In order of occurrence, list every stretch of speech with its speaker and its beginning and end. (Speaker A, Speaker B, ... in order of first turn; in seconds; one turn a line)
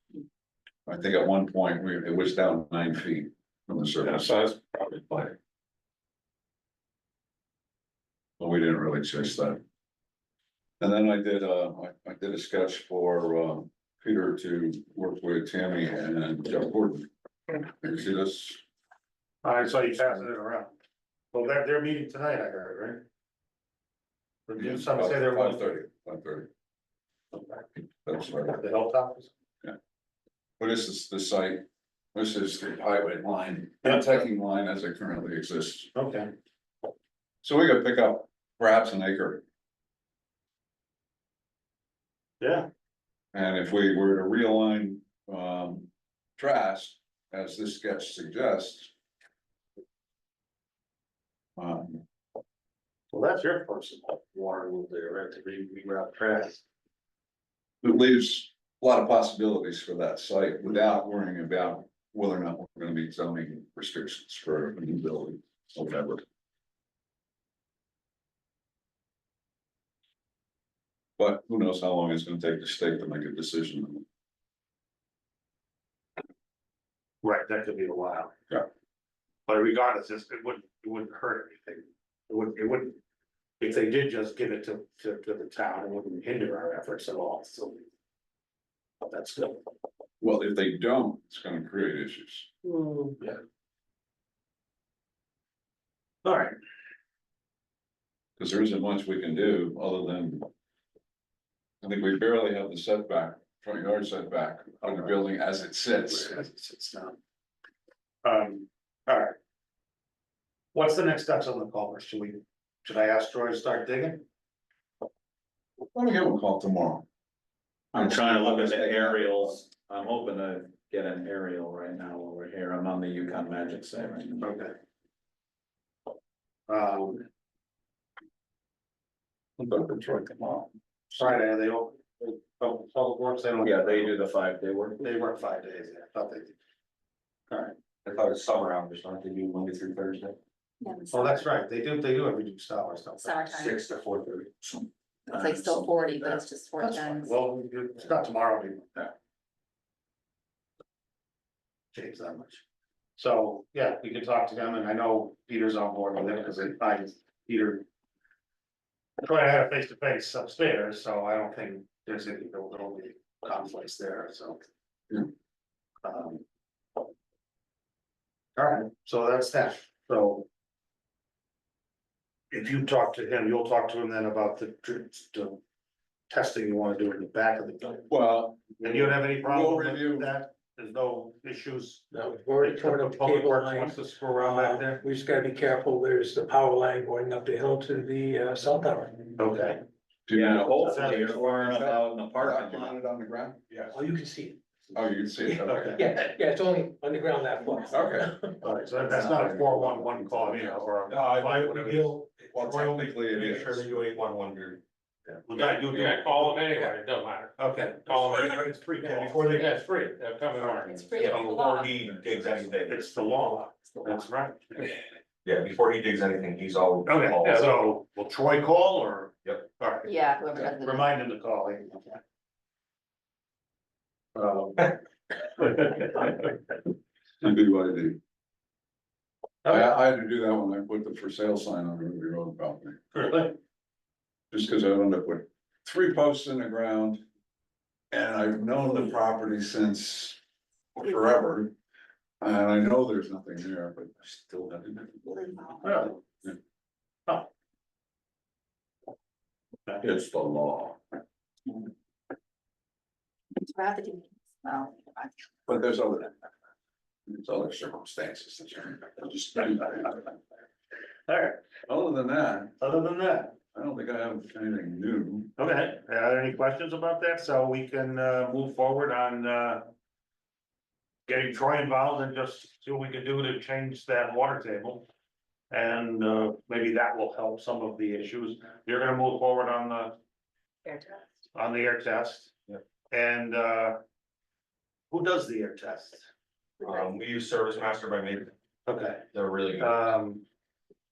Speaker A: 0.9-4.3
Speaker A: 8.4-9.6
Speaker A: 10.8-17.1
Speaker A: 17.7-18.6
Speaker B: 19.4-20.7
Speaker B: 21.3-23.1
Speaker B: 24.5-25.7
Speaker A: 24.6-26.5
Speaker A: 28.0-28.6
Speaker B: 28.4-29.3
Speaker A: 30.6-35.9
Speaker B: 36.0-36.3
Speaker A: 37.4-39.4
Speaker B: 42.4-42.7
Speaker A: 43.3-48.9
Speaker A: 51.6-52.0
Speaker B: 53.1-56.6
Speaker A: 57.8-66.2
Speaker A: 71.2-74.0
Speaker B: 77.2-78.3
Speaker B: 79.5-83.0
Speaker B: 83.6-87.8
Speaker B: 89.0-89.7
Speaker A: 90.2-92.5
Speaker B: 92.7-93.4
Speaker B: 96.2-96.6
Speaker A: 98.4-100.5
Speaker A: 101.8-106.4
Speaker B: 104.9-105.1
Speaker B: 106.1-107.2
Speaker B: 108.2-109.4
Speaker B: 110.7-114.2
Speaker A: 115.9-117.1
Speaker C: 117.9-124.5
Speaker A: 118.6-119.2
Speaker B: 124.4-124.7
Speaker B: 126.7-127.3
Speaker A: 129.6-130.7
Speaker B: 131.1-134.2
Speaker C: 133.6-135.1
Speaker B: 135.0-136.6
Speaker B: 137.5-137.8
Speaker D: 138.0-140.4
Speaker E: 140.8-141.5
Speaker B: 141.1-143.7
Speaker E: 143.2-143.8
Speaker D: 143.6-144.6
Speaker E: 145.3-147.4
Speaker C: 145.3-146.4
Speaker B: 146.8-149.1
Speaker B: 151.9-152.6
Speaker B: 153.2-157.8
Speaker B: 159.2-164.6
Speaker B: 166.0-166.4
Speaker B: 168.6-170.5
Speaker B: 172.5-175.6
Speaker B: 176.3-178.1
Speaker A: 178.1-180.3
Speaker B: 178.8-185.0
Speaker F: 182.1-189.3
Speaker B: 189.4-189.8
Speaker A: 190.3-193.9
Speaker C: 190.3-193.0
Speaker B: 190.5-191.9
Speaker F: 193.9-194.6
Speaker A: 194.9-196.1
Speaker F: 195.4-198.6
Speaker B: 195.7-196.0
Speaker A: 197.9-198.4
Speaker B: 198.6-202.2
Speaker A: 199.1-204.0
Speaker D: 201.1-204.8
Speaker B: 205.5-206.9
Speaker G: 205.6-207.5
Speaker B: 207.6-209.9
Speaker G: 208.1-208.4
Speaker D: 209.3-209.6
Speaker G: 209.6-210.8
Speaker B: 210.6-211.1
Speaker E: 210.9-211.9
Speaker D: 211.2-213.1
Speaker B: 212.8-214.9
Speaker D: 215.4-217.8
Speaker B: 217.1-222.2
Speaker E: 220.0-221.1
Speaker B: 224.3-225.0
Speaker A: 227.4-228.2
Speaker B: 229.6-229.9
Speaker A: 229.7-233.3
Speaker B: 233.1-233.5
Speaker A: 234.5-237.2
Speaker A: 238.1-240.4
Speaker A: 241.0-241.7
Speaker A: 242.4-245.4
Speaker E: 245.3-246.0
Speaker B: 245.8-246.2
Speaker C: 250.0-250.4
Speaker A: 250.1-251.0
Speaker E: 253.6-255.4
Speaker A: 255.7-256.3
Speaker A: 257.3-260.2
Speaker B: 261.3-261.6
Speaker A: 261.9-262.8
Speaker B: 262.8-263.6
Speaker A: 263.7-265.5
Speaker B: 265.6-269.9
Speaker B: 271.3-275.1
Speaker B: 275.7-280.2
Speaker E: 280.9-281.2
Speaker B: 281.5-282.5
Speaker B: 283.1-284.0
Speaker B: 285.1-286.3
Speaker D: 286.8-288.5
Speaker B: 288.9-290.4
Speaker D: 289.3-290.1